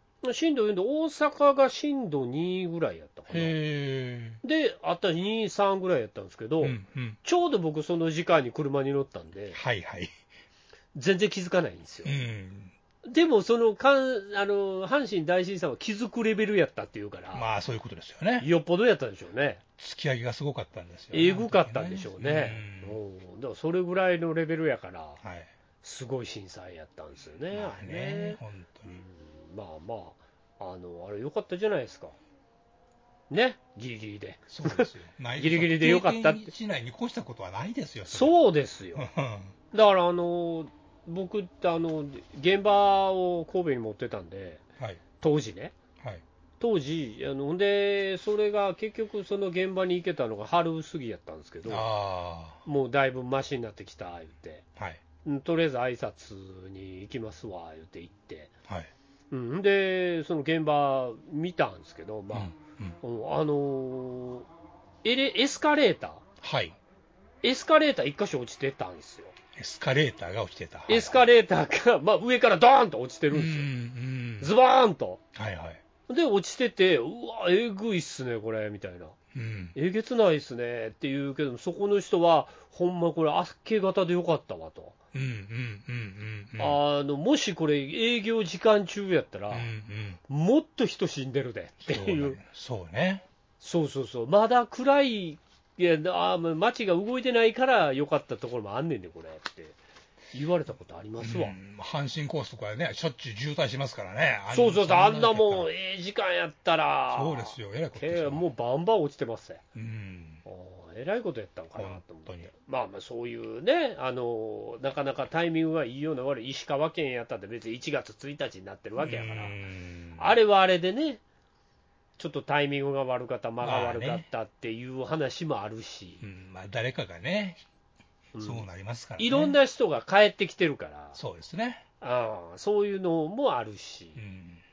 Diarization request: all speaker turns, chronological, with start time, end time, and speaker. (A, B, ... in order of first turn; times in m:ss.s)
0:00.2-0:03.6 A
0:03.3-0:04.4 B
0:04.4-0:09.6 A
0:06.6-0:07.2 B
0:09.5-0:10.1 B
0:10.9-0:12.2 A
0:12.0-0:12.7 B
0:13.0-0:17.4 A
0:17.3-0:18.5 B
0:18.4-0:19.6 A
0:19.8-0:23.0 B
0:21.1-0:25.2 A
0:25.2-0:25.5 B
0:25.8-0:32.1 A
0:27.5-0:29.0 B
0:33.3-0:36.5 A
0:34.5-0:38.3 B
0:38.1-0:39.1 A
0:38.9-0:39.5 B
0:39.7-0:44.6 A
0:45.2-0:45.8 A
0:46.6-0:51.9 A
0:51.6-0:52.6 B
0:52.6-0:54.6 A
0:55.2-0:58.5 A
0:59.3-1:04.5 A
1:02.3-1:03.0 B
1:05.0-1:06.2 A
1:06.4-1:06.8 B
1:07.4-1:09.4 A
1:09.6-1:11.3 B
1:10.9-1:13.7 A
1:13.3-1:14.5 B
1:14.4-1:15.2 A
1:15.4-1:15.8 B
1:16.1-1:19.1 A
1:19.3-1:19.7 B
1:19.7-1:25.0 A
1:25.1-1:26.8 B
1:26.6-1:29.7 A
1:29.5-1:30.2 B
1:30.3-1:32.4 A
1:31.8-1:33.2 B
1:33.6-1:39.8 A
1:40.3-1:41.6 A
1:41.2-1:45.7 B
1:44.5-1:49.6 A
1:47.1-1:48.5 B
1:49.7-1:50.4 B
1:50.4-1:59.6 A
1:51.8-1:52.5 B
1:59.0-2:00.4 B
2:00.2-2:01.2 A
2:02.2-2:06.2 A
2:03.6-2:04.2 B
2:06.2-2:07.6 B
2:08.4-2:08.6 A
2:08.4-2:09.6 B
2:09.2-2:11.2 A
2:11.1-2:11.8 B
2:12.0-2:14.2 A
2:14.2-2:14.6 B